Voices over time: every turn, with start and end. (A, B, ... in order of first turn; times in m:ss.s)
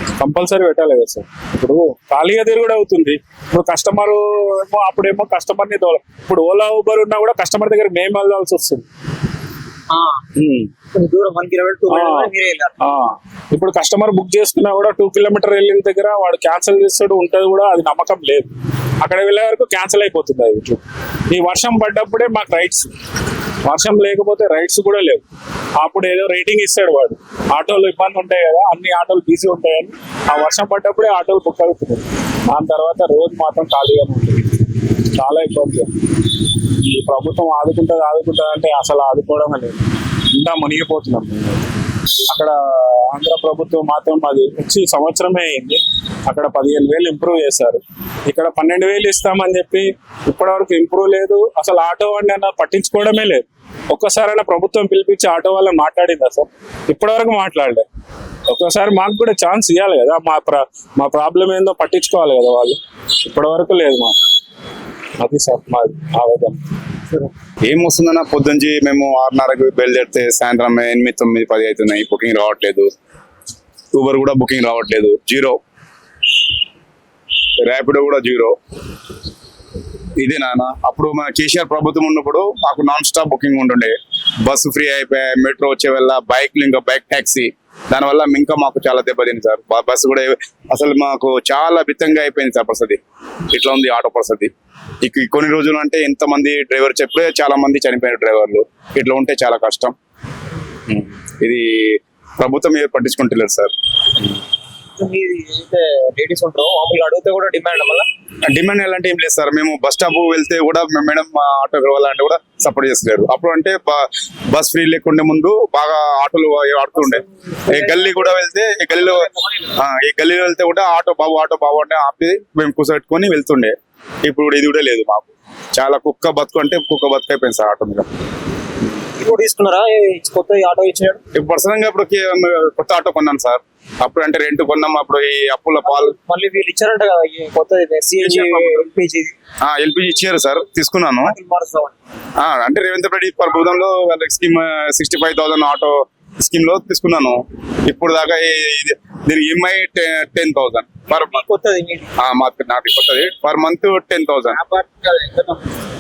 0:00.2-0:08.8 A
0:09.9-0:10.2 B
0:10.4-0:10.7 A
0:10.9-0:12.8 B
0:11.9-0:18.5 A
0:19.0-0:22.9 A
0:23.6-0:25.2 A
0:25.8-0:34.5 A
0:35.2-0:36.0 A
0:36.8-0:41.7 A
0:42.3-0:57.8 A
0:58.5-1:04.2 A
1:05.2-1:06.6 A
1:07.7-1:12.9 C
1:13.9-1:15.6 C
1:17.6-1:18.6 C
1:20.2-1:33.0 C
1:33.5-1:34.5 C
1:35.0-1:39.9 C
1:40.9-1:43.7 C
1:45.0-1:48.1 B
1:48.5-2:08.1 C
1:57.0-1:59.8 B
2:09.2-2:11.2 B
2:11.3-2:16.1 C
2:15.8-2:19.4 B
2:18.2-2:18.9 C
2:19.6-2:21.4 C
2:21.2-2:22.0 B
2:22.4-2:31.4 C
2:31.1-2:32.1 B
2:32.2-2:34.6 C
2:34.5-2:35.7 B